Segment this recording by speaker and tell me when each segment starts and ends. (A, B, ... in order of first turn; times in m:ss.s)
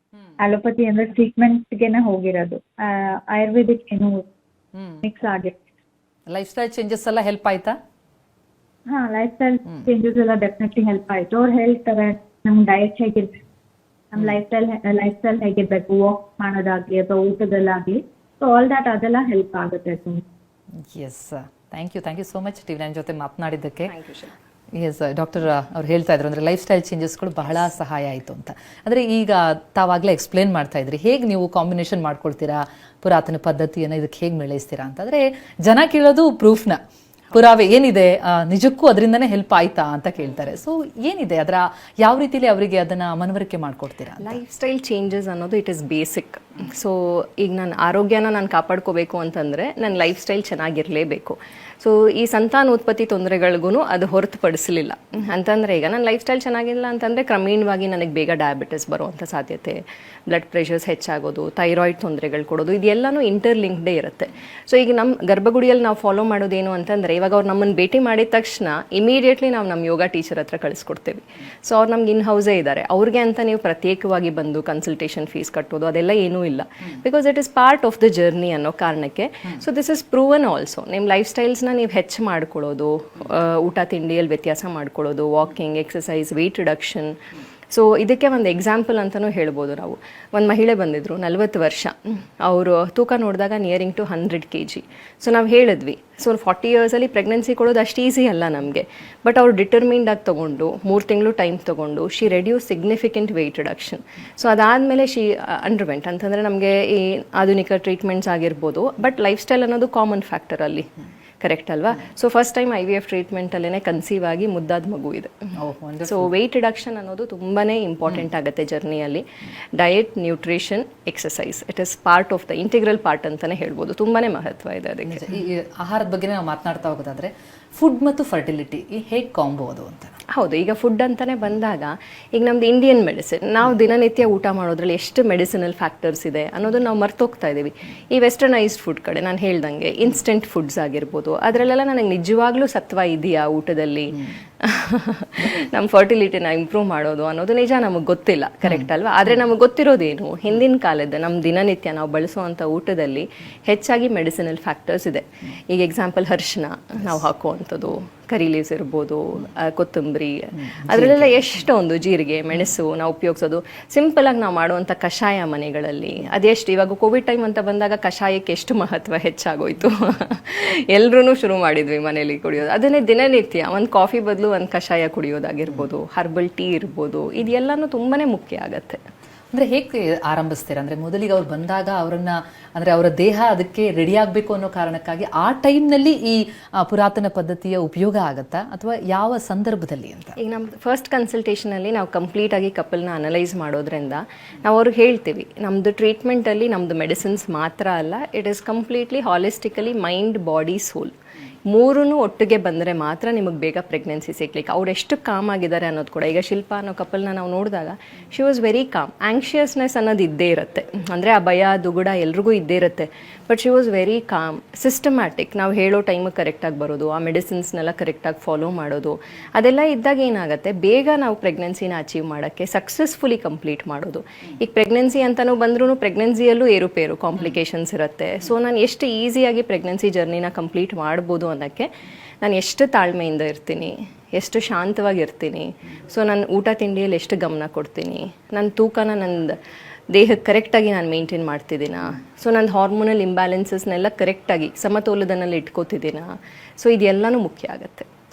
0:00.4-0:04.2 A
0:04.7-0:05.0 B
0:05.0-0:05.6 A
0:06.3-0:07.8 B
0:08.9-0:13.4 A
0:14.1-0:20.2 A
0:20.8-0:23.9 B
0:23.9-0:24.3 C
0:24.7-0:36.8 B
0:37.3-0:44.4 B
0:44.2-1:55.4 C
1:55.6-1:56.3 B
1:56.0-1:59.2 C
1:59.8-2:05.2 C
2:05.1-2:10.2 B
2:10.3-2:59.0 C
2:40.8-2:41.4 B
2:59.5-3:10.4 B
3:10.4-3:21.1 C
3:21.7-3:51.9 C
3:52.4-3:59.6 C
4:00.1-4:08.1 C